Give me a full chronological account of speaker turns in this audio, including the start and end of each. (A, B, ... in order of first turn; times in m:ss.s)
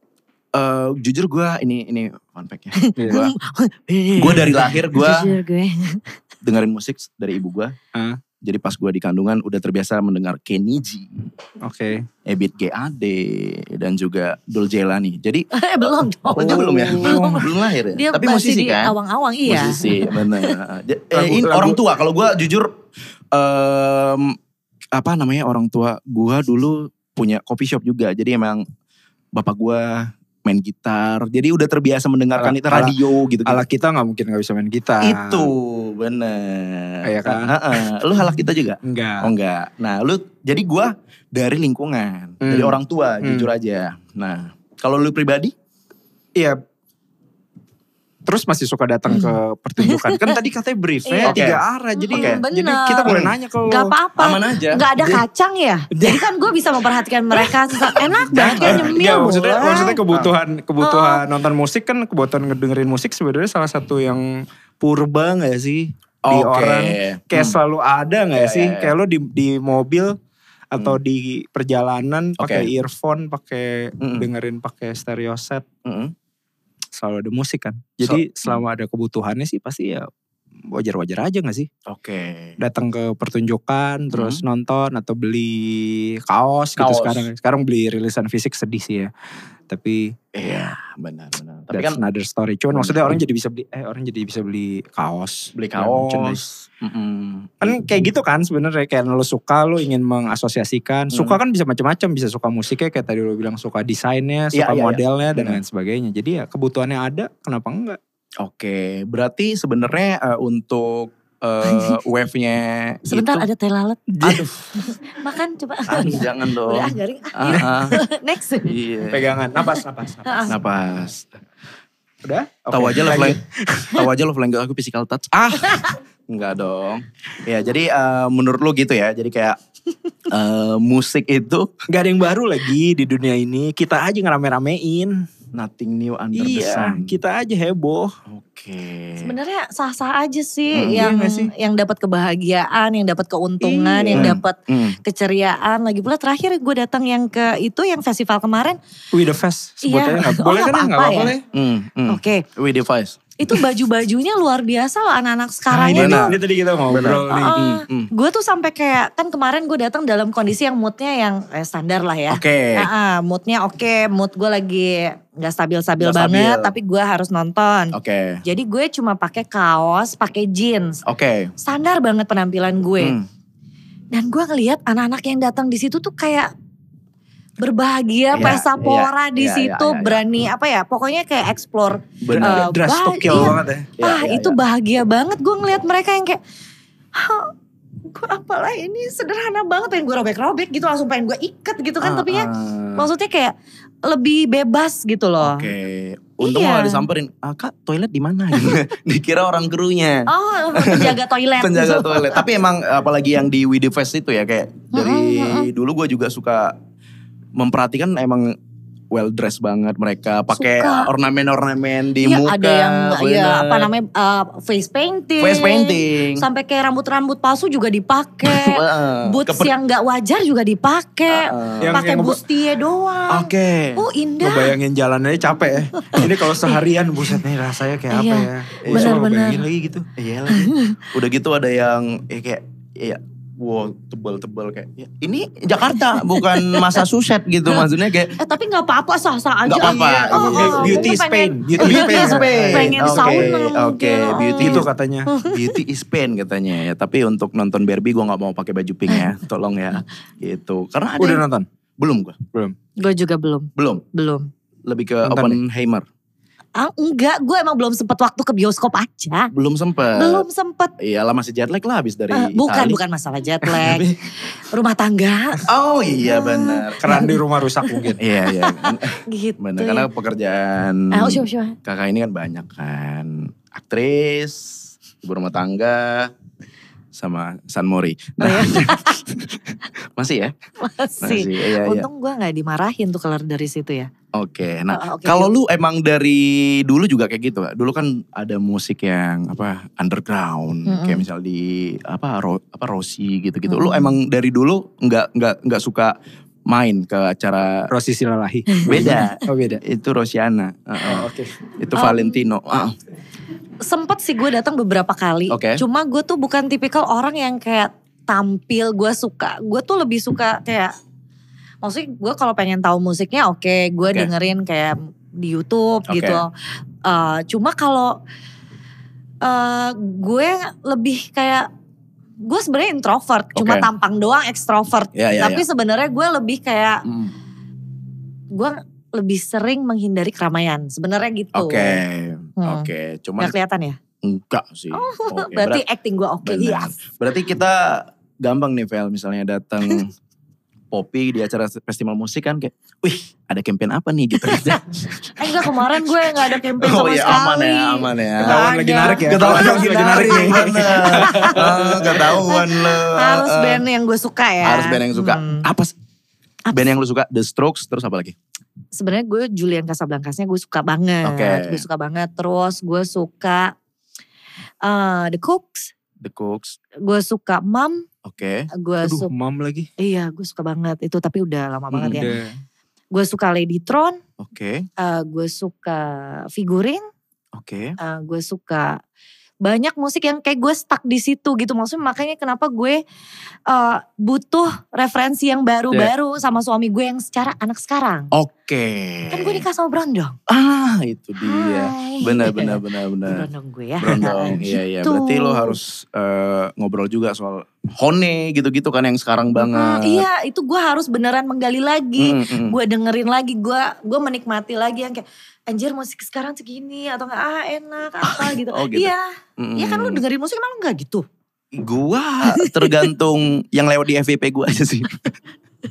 0:00.5-0:03.3 A
0:02.8-0:06.0 B
0:03.0-0:03.3 C
0:04.2-0:05.3 A
0:06.4-0:07.7 A
0:07.9-0:08.2 C
0:08.4-0:11.1 A
0:11.6-0:12.1 C
0:12.2-0:18.9 A
0:15.5-0:20.5 B
0:16.4-0:17.4 C
0:19.4-0:22.7 A
0:21.1-0:21.8 C
0:23.3-0:24.4 A
0:24.9-0:28.6 A
0:29.3-0:33.6 A
0:32.4-0:35.5 C
0:35.0-0:45.5 A
0:37.0-0:37.9 C
0:38.8-0:39.3 C
0:42.4-0:43.5 C
0:48.2-0:53.9 C
0:49.1-0:50.3 B
0:51.0-0:51.4 B
0:51.2-0:51.6 A
0:52.0-0:53.1 B
0:52.1-0:52.4 A
0:53.1-0:53.3 A
0:53.7-1:00.0 B
0:54.2-0:55.2 A
0:55.9-0:56.2 C
0:58.3-1:10.2 C
0:58.3-0:59.2 A
1:00.8-1:01.2 B
1:06.2-1:07.6 A
1:08.4-1:08.9 A
1:10.7-1:15.6 C
1:12.4-1:12.7 A
1:14.0-1:14.3 A
1:15.8-1:16.1 A
1:16.9-1:20.1 C
1:18.0-1:18.6 A
1:20.7-1:21.7 C
1:21.9-1:22.6 A
1:22.6-1:29.1 C
1:24.1-1:24.4 A
1:26.8-1:27.2 A
1:29.7-1:30.7 C
1:30.3-1:32.0 A
1:31.7-1:36.4 C
1:32.7-1:33.1 A
1:35.5-1:37.8 A
1:37.6-1:48.0 C
1:41.1-1:41.4 A
1:44.5-1:45.6 A
1:48.4-1:53.5 A
1:51.6-1:52.0 B
1:53.1-1:58.7 B
1:54.2-1:54.7 A
1:55.9-1:58.0 A
1:58.6-1:59.3 A
1:59.1-2:00.6 C
2:00.2-2:00.5 B
2:00.5-2:01.4 A
2:02.2-2:04.0 C
2:02.7-2:03.4 A
2:03.9-2:09.6 A
2:10.3-2:11.7 A
2:11.9-2:15.2 C
2:15.5-2:17.1 A
2:16.3-2:18.1 C
2:18.3-2:19.3 A
2:19.2-2:28.8 B
2:20.7-2:21.1 A
2:20.9-2:21.5 C
2:23.6-2:24.4 C
2:24.0-2:25.0 A
2:29.1-2:31.4 C
2:29.8-2:31.3 B
2:31.5-2:33.2 A
2:32.1-2:32.4 B
2:33.4-2:36.3 B
2:35.7-2:37.6 C
2:35.9-2:38.1 A
2:37.3-2:51.0 B
2:42.3-2:42.9 A
2:46.0-2:46.7 A
2:47.9-2:48.4 A
2:51.0-2:51.5 A
2:51.6-2:53.1 B
2:53.0-2:53.3 A
2:54.1-2:56.5 B
2:57.6-3:06.4 B
2:58.3-3:00.2 A
3:02.2-3:02.7 A
3:02.3-3:03.9 C
3:03.3-3:04.6 A
3:07.2-3:07.5 B
3:08.1-3:13.5 B
3:12.0-3:13.1 A
3:14.0-3:15.7 B
3:15.4-3:26.8 A
3:16.4-3:17.0 B
3:20.3-3:22.4 B
3:24.9-3:25.7 B
3:27.5-3:28.6 A
3:29.1-3:33.9 A
3:30.5-3:31.1 B
3:32.2-3:44.7 B
3:35.4-3:36.4 A
3:38.5-3:39.7 A
3:41.3-3:42.0 A
3:41.8-3:42.4 C
3:43.3-3:44.0 A
3:44.4-3:50.1 C
3:46.1-3:46.8 B
3:48.1-3:49.6 B
3:48.8-3:49.2 A
3:50.2-3:58.3 A
3:50.5-3:50.9 B
3:56.4-3:56.8 B
3:58.4-4:05.6 B
3:59.6-4:01.1 A
3:59.8-4:03.6 C
4:01.8-4:04.9 A
4:04.6-4:05.3 C
4:05.5-4:11.4 A
4:11.2-4:11.7 C
4:12.0-4:12.4 A
4:13.0-4:14.5 B
4:13.8-4:14.0 A
4:14.8-4:16.0 A
4:15.2-4:15.6 C
4:16.8-4:19.5 B
4:19.5-4:20.4 A
4:20.2-4:20.9 B
4:21.0-4:23.0 A
4:22.3-4:24.0 B
4:23.6-4:24.2 A
4:24.7-4:25.7 B
4:25.7-4:27.3 A
4:26.2-4:27.3 B
4:27.0-4:28.2 C
4:27.8-4:30.1 B
4:28.2-4:34.7 A
4:31.1-4:31.8 B
4:35.2-4:36.3 A
4:37.1-4:39.2 A
4:38.4-4:39.2 B
4:40.2-4:40.5 A
4:40.8-4:44.1 B
4:41.2-4:42.1 A
4:44.3-4:56.2 A
4:44.9-4:45.5 B
4:50.9-4:51.2 B
4:53.7-4:54.2 B
4:56.7-4:57.9 A
4:57.9-4:59.8 C
4:58.8-4:59.3 B
4:58.8-5:03.0 A
5:01.0-5:01.5 C
5:01.9-5:02.4 B
5:03.8-5:10.9 B
5:05.5-5:05.8 A
5:11.8-5:16.5 B
5:16.1-5:16.4 A
5:17.0-5:18.2 B
5:19.4-5:21.7 B
5:22.4-5:27.0 B
5:23.5-5:23.9 A
5:25.1-5:25.6 A
5:27.1-5:27.3 A
5:28.5-5:32.0 B
5:31.5-5:33.5 A
5:32.6-5:32.9 B
5:33.4-5:34.0 B
5:34.2-5:35.8 A
5:34.9-5:36.9 B
5:36.4-5:40.1 A
5:40.9-5:53.8 A
5:45.4-5:55.6 B
5:48.4-5:52.3 C
5:54.6-5:55.9 A
5:56.7-5:58.4 A
5:58.9-6:03.7 B
6:01.2-6:01.8 A
6:04.8-6:05.9 B
6:06.2-6:06.8 A
6:07.0-6:08.0 B
6:08.2-6:08.7 A
6:08.7-6:09.3 B
6:09.0-6:09.9 C
6:10.0-6:12.3 B
6:11.9-6:12.2 A
6:12.1-6:12.5 C
6:13.1-6:14.2 B
6:14.4-6:14.9 A
6:15.0-6:17.0 B
6:17.5-6:17.9 A
6:18.0-6:19.0 B
6:19.6-6:23.0 B
6:23.7-6:28.3 B
6:28.3-6:29.6 A
6:29.3-6:30.4 B
6:30.5-6:33.4 A
6:31.4-6:35.8 B
6:34.0-6:40.2 A
6:39.6-6:51.2 B
6:42.2-6:42.8 A
6:48.3-6:50.2 A
6:51.7-6:55.3 A
6:52.5-6:53.1 B